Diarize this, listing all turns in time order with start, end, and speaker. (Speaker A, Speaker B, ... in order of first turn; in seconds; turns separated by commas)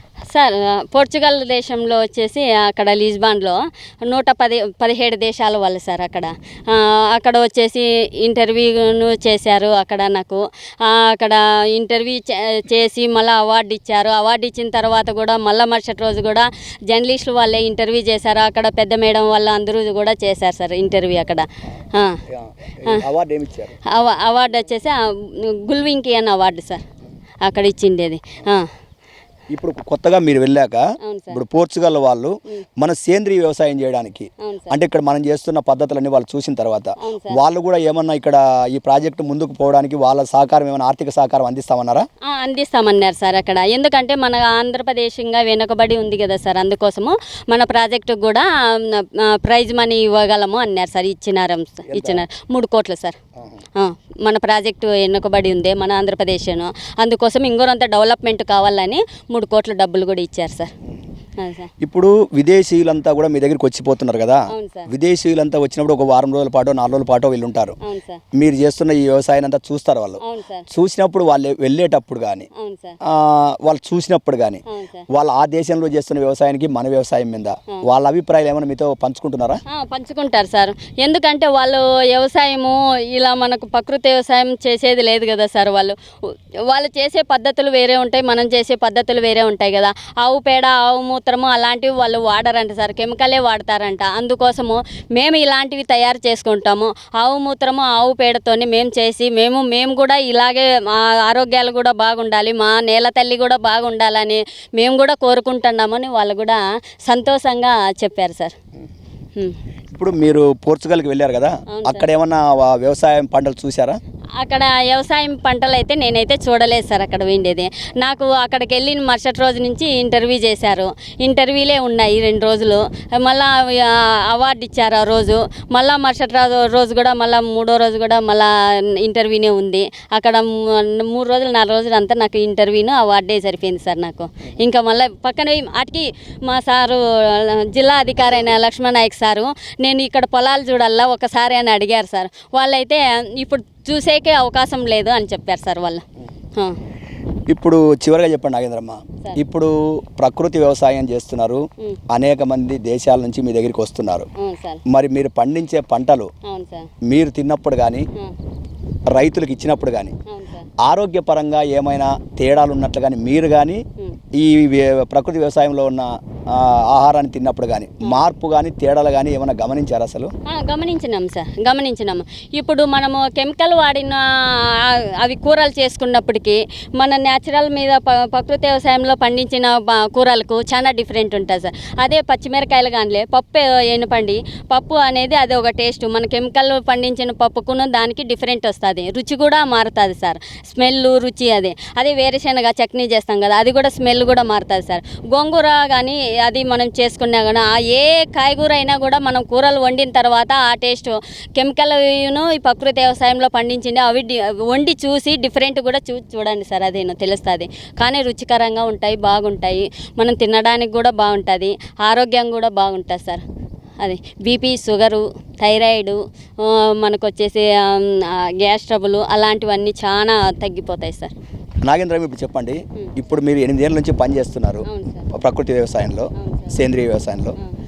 Speaker A: 0.3-22.2, Speaker B: 22.2-23.8, Speaker A: 23.9-26.8, Speaker A: 27.4-28.7, Speaker B: 29.5-42.1, Speaker A: 31.0-31.4, Speaker A: 34.4-34.8, Speaker A: 37.0-37.4, Speaker A: 42.2-53.2, Speaker B: 51.9-52.2, Speaker A: 53.8-60.7, Speaker A: 61.4-61.7, Speaker B: 61.8-67.8, Speaker A: 64.5-64.9, Speaker A: 67.8-68.2, Speaker B: 68.3-72.5, Speaker A: 70.2-70.7, Speaker A: 72.6-73.0, Speaker B: 73.0-79.6, Speaker A: 74.7-75.1, Speaker A: 79.7-108.5, Speaker B: 109.9-114.0, Speaker A: 111.7-112.1, Speaker A: 114.4-146.0, Speaker B: 147.5-154.3, Speaker A: 154.4-154.8, Speaker B: 154.9-156.3, Speaker A: 156.4-156.9, Speaker B: 157.1-158.1, Speaker B: 159.1-160.1, Speaker A: 160.3-160.7, Speaker B: 160.8-163.8, Speaker B: 164.4-170.3, Speaker A: 170.5-213.4, Speaker A: 214.0-221.3, Speaker B: 221.8-227.6, Speaker A: 224.9-225.3, Speaker A: 226.3-226.8